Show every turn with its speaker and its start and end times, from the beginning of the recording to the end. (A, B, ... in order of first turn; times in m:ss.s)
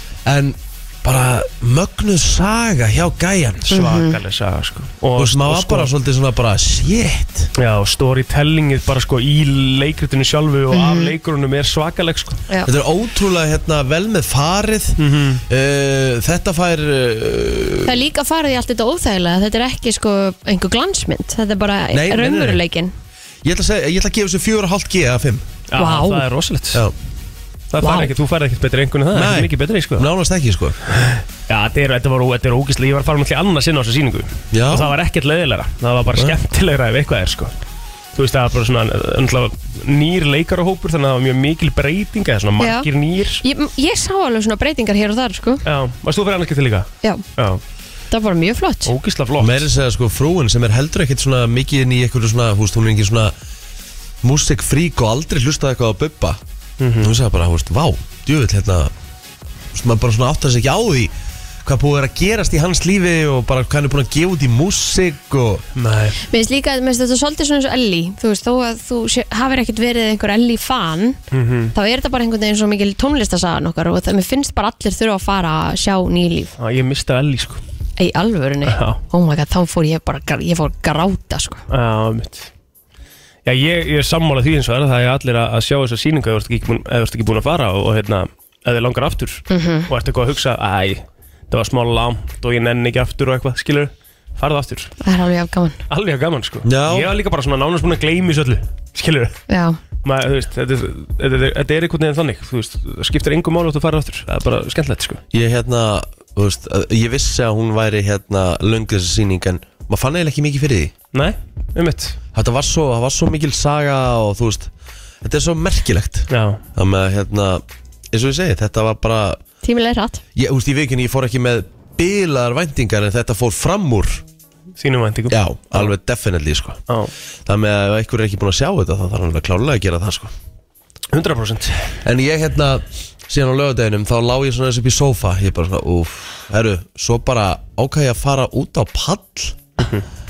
0:00.3-0:03.8 A
0:03.7-0:05.9 B
0:03.7-0:04.2 C
0:05.2-0:07.5 A
0:07.6-0:12.4 B
0:10.7-0:11.1 C
0:12.7-0:18.0 A
0:15.0-0:15.4 B
0:17.8-0:22.9 C
0:21.9-0:22.6 A
0:23.4-0:25.5 A
0:25.7-0:26.9 B
0:25.8-0:26.2 C
0:27.7-0:30.1 B
0:27.8-0:28.1 C
0:29.1-0:30.8 A
0:31.0-0:37.5 B
0:34.5-0:34.9 A
0:38.2-0:43.4 B
0:42.6-0:42.9 C
0:43.4-0:45.6 C
0:45.6-0:47.6 B
0:48.1-0:48.9 C
0:48.9-0:49.7 B
0:49.4-0:53.3 A
0:54.2-0:56.4 A
0:56.8-0:57.1 B
0:57.0-0:58.9 A
0:59.7-1:01.1 A
1:01.6-1:05.6 A
1:05.8-1:06.2 B
1:06.3-1:11.2 C
1:11.3-1:11.7 B
1:11.8-1:16.5 C
1:16.6-1:17.6 B
1:18.0-1:21.6 C
1:18.7-1:19.0 B
1:21.7-1:22.5 B
1:23.4-1:35.0 B
1:29.5-1:29.9 C
1:35.0-1:35.8 C
1:35.9-1:39.4 B
1:36.6-1:37.1 A
1:39.5-1:39.8 C
1:40.0-1:45.2 B
1:45.3-1:50.9 A
1:51.1-1:52.2 B
1:52.3-1:54.7 A
1:55.2-1:59.4 A
1:56.3-1:56.6 B
1:59.6-2:00.2 C
2:00.4-2:04.2 A
2:04.8-2:05.9 B
2:05.3-2:06.8 A
2:07.5-2:10.3 A
2:11.1-2:11.9 B
2:12.0-2:19.7 A
2:19.8-2:20.0 B